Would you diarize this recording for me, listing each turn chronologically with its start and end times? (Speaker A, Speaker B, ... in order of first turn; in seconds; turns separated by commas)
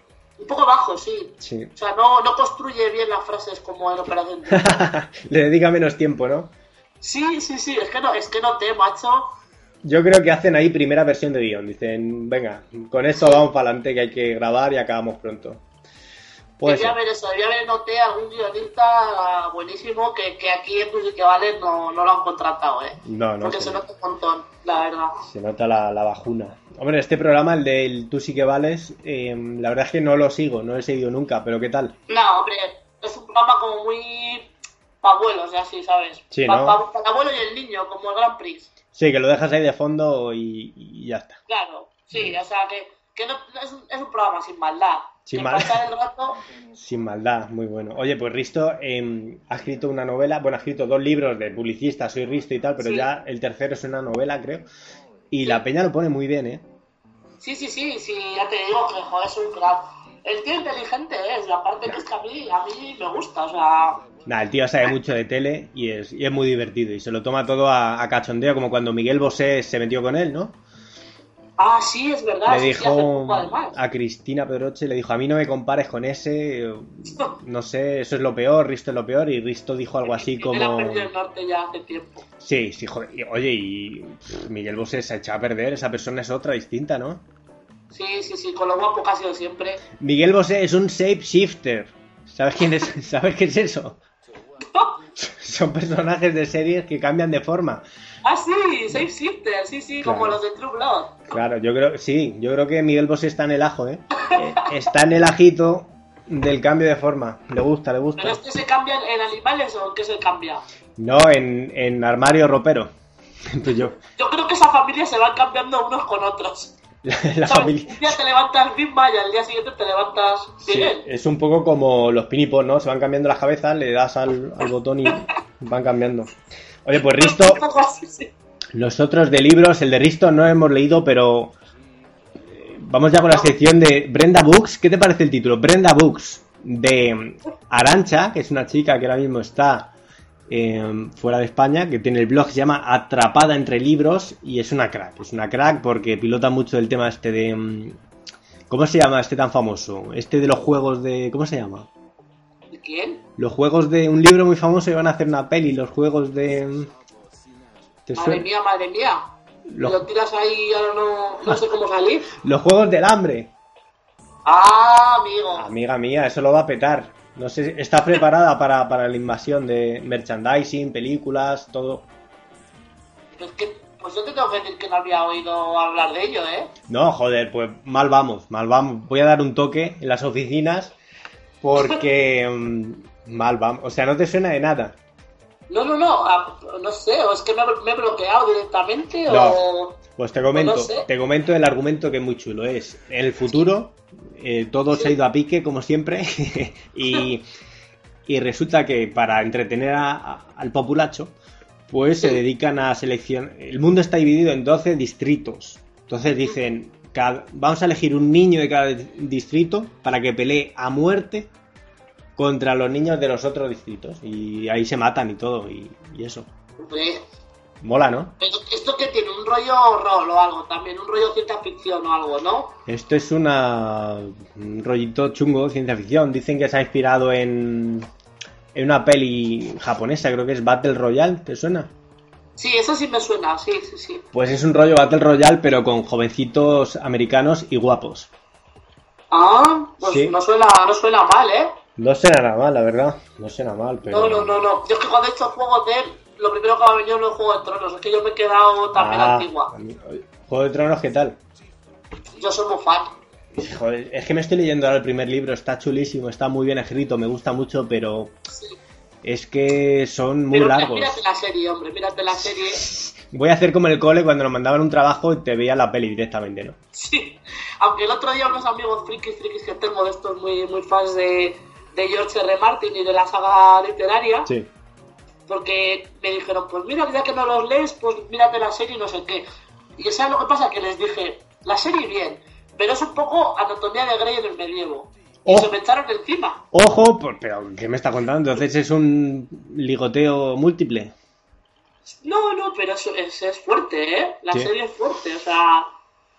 Speaker A: 0.4-4.9, Speaker B: 1.4-1.7, Speaker B: 4.5-6.5, Speaker A: 7.0-9.3, Speaker B: 9.8-15.6, Speaker B: 16.6-17.0, Speaker A: 16.6-25.2, Speaker B: 23.0-23.8, Speaker B: 25.3-32.0, Speaker A: 32.1-34.5, Speaker A: 35.0-38.7, Speaker B: 36.3-36.8, Speaker B: 39.0-41.4, Speaker A: 41.5-46.4, Speaker B: 45.3-45.8, Speaker B: 46.7-54.7, Speaker A: 52.8-53.1, Speaker B: 55.3-56.6, Speaker A: 57.4-64.0, Speaker B: 64.3-70.6, Speaker A: 71.6-73.8, Speaker B: 72.5-81.1, Speaker A: 80.1-82.2, Speaker B: 82.4-87.2, Speaker A: 87.9-89.8, Speaker B: 90.0-94.0, Speaker A: 94.7-95.0, Speaker B: 95.2-97.8, Speaker A: 98.2-101.3, Speaker B: 100.0-100.4, Speaker B: 101.3-108.4, Speaker A: 104.2-104.7, Speaker A: 108.2-110.6, Speaker B: 111.0-112.9, Speaker B: 113.5-114.0, Speaker A: 114.2-116.7, Speaker B: 117.0-118.2, Speaker A: 117.5-121.1, Speaker B: 120.6-126.3, Speaker B: 126.8-127.6, Speaker A: 127.1-128.3, Speaker B: 128.7-131.5, Speaker B: 132.5-139.9, Speaker B: 140.5-148.0, Speaker B: 148.7-151.9, Speaker A: 152.7-153.2, Speaker B: 153.4-156.9, Speaker B: 158.1-158.5, Speaker A: 158.2-159.3, Speaker B: 159.7-160.0, Speaker A: 159.8-162.3, Speaker B: 162.4-163.5, Speaker A: 164.5-165.7, Speaker B: 165.6-172.1, Speaker A: 173.4-176.7, Speaker B: 176.9-180.9, Speaker B: 181.6-185.0, Speaker A: 185.7-190.0, Speaker B: 189.3-189.6, Speaker B: 190.2-197.4, Speaker A: 190.5-191.1, Speaker B: 198.3-201.3, Speaker B: 201.9-211.5, Speaker B: 212.4-216.5, Speaker A: 216.8-217.3, Speaker B: 217.8-218.3, Speaker A: 218.4-222.8, Speaker B: 222.9-228.1, Speaker B: 228.7-231.9, Speaker A: 232.6-234.2, Speaker B: 234.3-238.3, Speaker A: 239.3-241.8, Speaker B: 240.0-240.4, Speaker B: 242.0-244.6, Speaker A: 244.1-249.7, Speaker B: 248.9-251.4, Speaker A: 252.4-253.1, Speaker B: 253.5-258.3, Speaker A: 258.5-258.8, Speaker B: 259.2-261.2, Speaker A: 260.5-262.9, Speaker B: 262.3-266.8, Speaker A: 266.9-274.5, Speaker A: 275.5-279.4, Speaker A: 280.0-286.6, Speaker B: 285.4-285.7, Speaker B: 286.7-291.1, Speaker A: 292.1-295.9